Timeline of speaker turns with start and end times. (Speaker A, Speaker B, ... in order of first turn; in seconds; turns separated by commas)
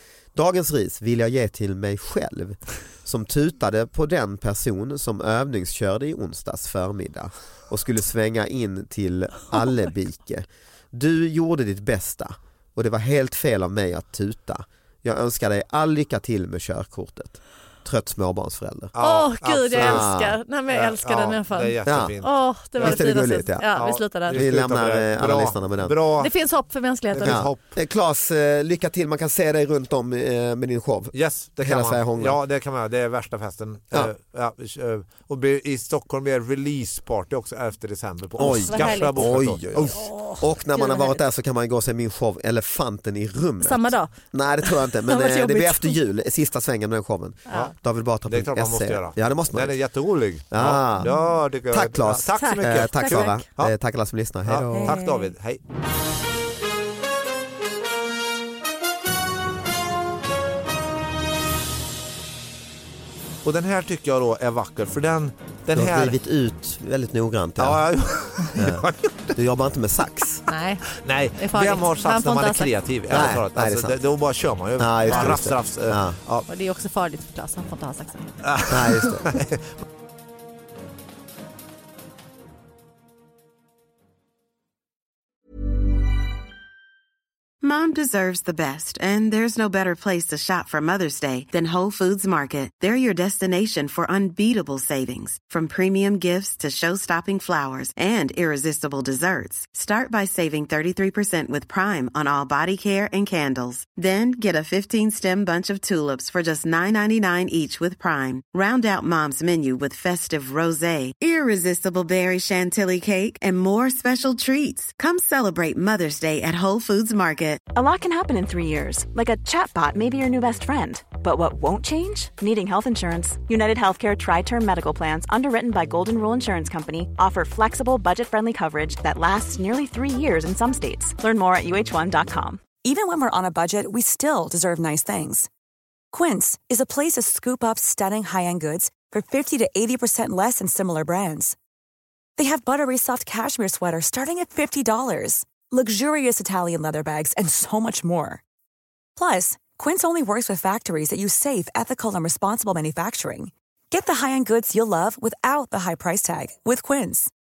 Speaker A: 0.3-18.9, Speaker B: 18.9-20.1, Speaker C: 19.0-24.4, Speaker A: 19.8-20.4, Speaker B: 20.7-23.0, Speaker A: 21.9-22.1, Speaker A: 22.8-23.6, Speaker B: 23.7-26.3, Speaker A: 24.3-25.9, Speaker C: 26.2-27.5, Speaker B: 27.1-27.6, Speaker A: 27.2-32.4, Speaker B: 31.1-40.0, Speaker A: 38.4-49.7, Speaker C: 38.4-39.4, Speaker C: 39.9-41.2, Speaker C: 43.6-44.1, Speaker C: 44.6-46.0, Speaker B: 48.3-53.7, Speaker A: 50.5-51.1, Speaker A: 51.7-55.0, Speaker C: 52.4-53.5, Speaker B: 54.4-55.6, Speaker C: 54.7-55.3, Speaker B: 63.4-66.2, Speaker A: 65.7-67.8, Speaker B: 67.6-69.4, Speaker A: 68.5-70.4, Speaker C: 70.5-70.8, Speaker B: 70.9-76.5, Speaker C: 71.4-72.7, Speaker A: 73.1-73.9, Speaker A: 74.8-76.2, Speaker C: 75.1-75.4, Speaker C: 76.5-78.3, Speaker B: 78.4-79.7, Speaker A: 78.7-79.2, Speaker D: 87.6-117.6, Speaker E: 117.7-132.6, Speaker F: 132.8-135.5, Speaker F: 136.1-141.6, Speaker F: 142.4-148.4, Speaker F: 149.2-157.3